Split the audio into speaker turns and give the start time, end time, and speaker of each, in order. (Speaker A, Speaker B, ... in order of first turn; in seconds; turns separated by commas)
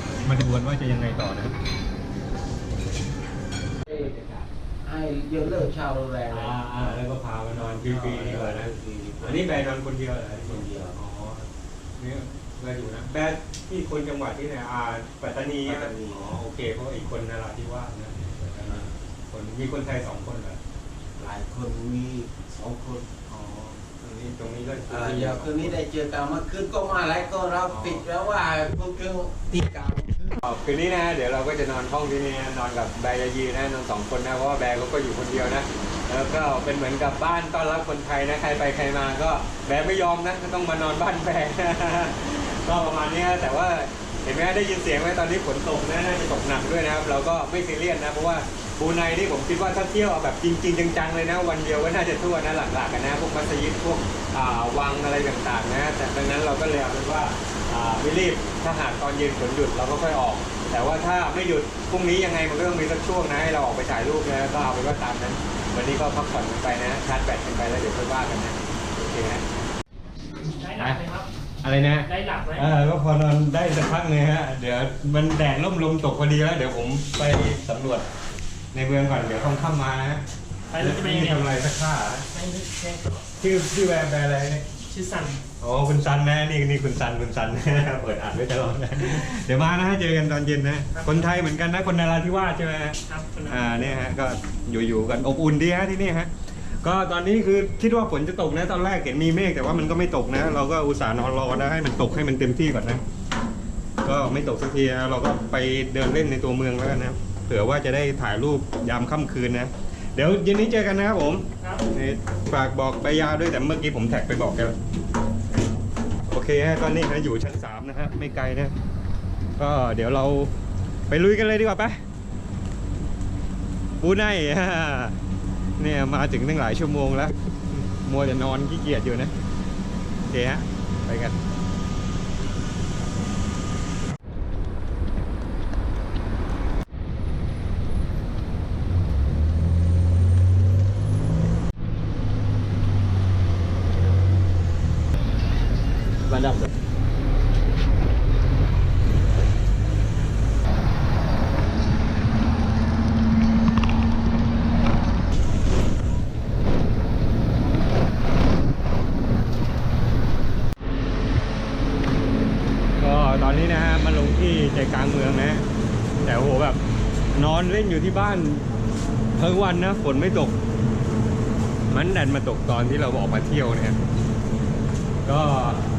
Speaker A: 0.2-1.6, Speaker B: 3.9-4.2, Speaker A: 3.9-4.5, Speaker B: 4.8-7.0, Speaker A: 6.3-11.5, Speaker B: 7.8-9.6, Speaker B: 10.5-11.0, Speaker A: 12.0-20.6, Speaker B: 15.7-16.4, Speaker B: 18.7-18.9, Speaker B: 21.2-23.9, Speaker A: 24.0-25.8, Speaker B: 24.9-30.4, Speaker A: 27.7-28.0, Speaker A: 30.4-69.5, Speaker C: 70.5-71.3, Speaker A: 70.8-71.0, Speaker A: 71.6-78.1, Speaker C: 72.0-72.7, Speaker A: 78.7-80.2, Speaker C: 80.7-81.5, Speaker A: 80.8-82.3, Speaker C: 82.3-83.2, Speaker A: 83.4-84.7, Speaker C: 84.9-85.4, Speaker A: 85.6-96.3, Speaker C: 93.1-93.8, Speaker A: 96.8-103.0, Speaker A: 104.0-114.8, Speaker A: 116.3-118.8, Speaker A: 119.6-120.5, Speaker A: 121.1-122.0, Speaker A: 124.0-125.2, Speaker A: 125.8-129.3, Speaker A: 130.3-131.3, Speaker B: 146.3-146.7, Speaker A: 163.0-165.7, Speaker A: 166.2-166.8, Speaker A: 167.3-168.7, Speaker A: 169.4-170.6, Speaker A: 171.9-174.0, Speaker A: 175.2-175.8